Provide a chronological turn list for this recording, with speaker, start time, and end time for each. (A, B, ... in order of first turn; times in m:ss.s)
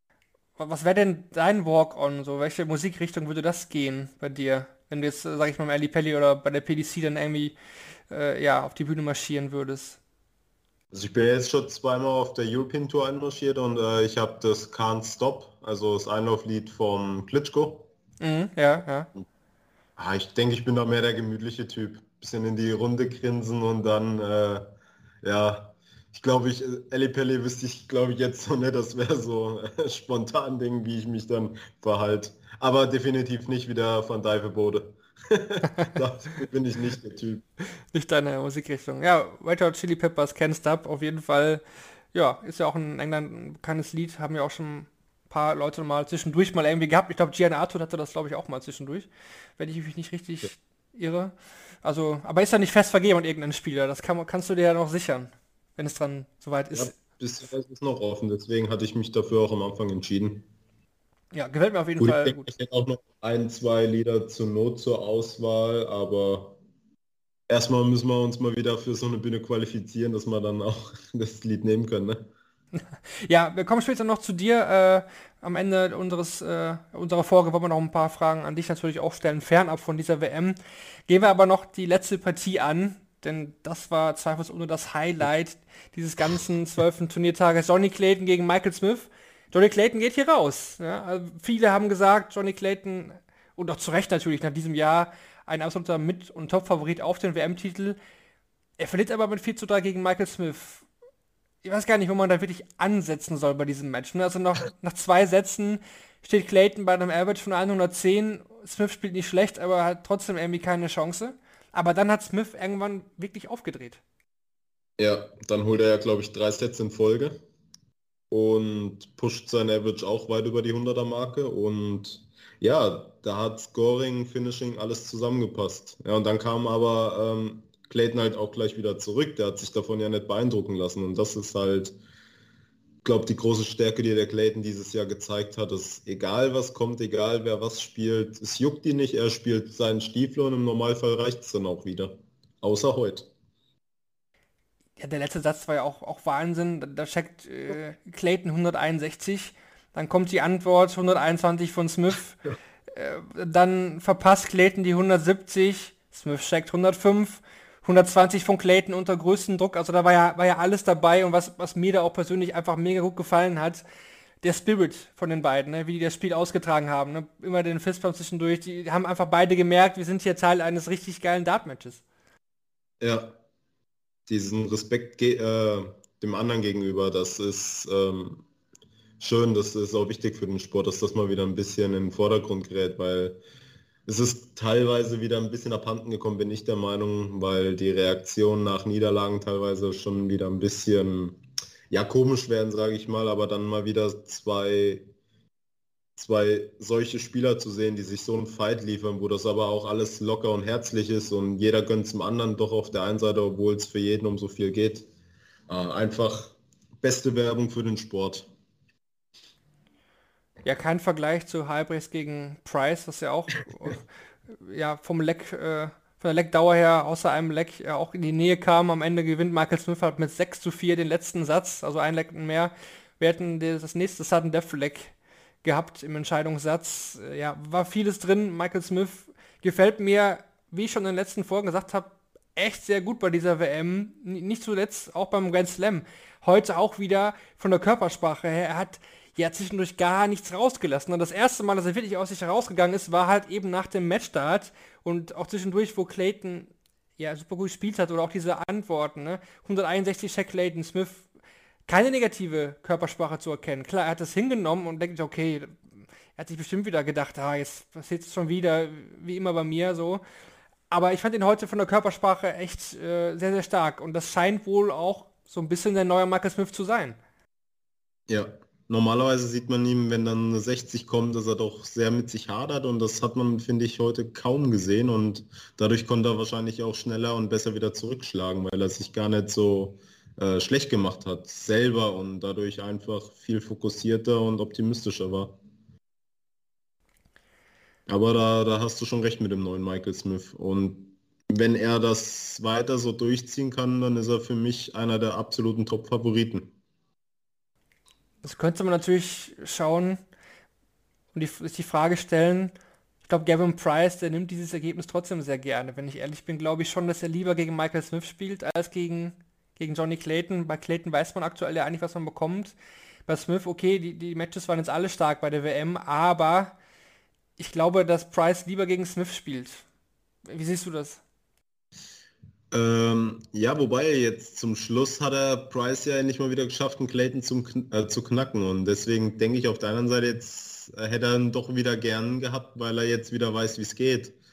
0:00.6-0:07.6 A
0:08.1-0:10.0 A
0:10.9-0:17.9 B
0:18.2-0:19.1 A
0:20.0-0:37.4 B
0:37.9-0:41.6 A
0:42.1-0:57.0 A
0:56.7-1:00.5 B
1:01.3-1:02.5 A
1:02.0-1:06.6 B
1:07.5-1:12.3 B
1:13.2-1:20.6 A
1:21.1-1:38.0 A
1:38.8-1:40.8 A
1:41.6-1:54.0 A
1:55.0-1:57.4 B
1:58.3-2:12.0 B
2:13.0-2:23.3 B
2:25.0-2:32.4 A
2:32.9-2:43.8 A
2:44.4-2:52.0 A
2:53.0-2:53.4 B
2:54.3-2:58.4 B
2:59.2-3:03.4 B
3:04.1-3:15.1 B
3:16.2-3:25.1 B
3:25.7-3:28.5 B
3:30.6-3:45.1 A
3:45.6-4:11.2 A
4:11.9-4:15.8 A
4:16.4-4:20.2 A
4:20.9-4:27.2 A
4:28.3-4:45.6 B
4:48.1-4:56.7 B
4:58.4-5:00.2 A
5:01.4-5:02.7 A
5:03.3-5:12.8 A
5:13.3-5:16.8 A
5:17.6-5:19.8 A
5:20.5-5:21.2 A
5:22.7-5:34.4 B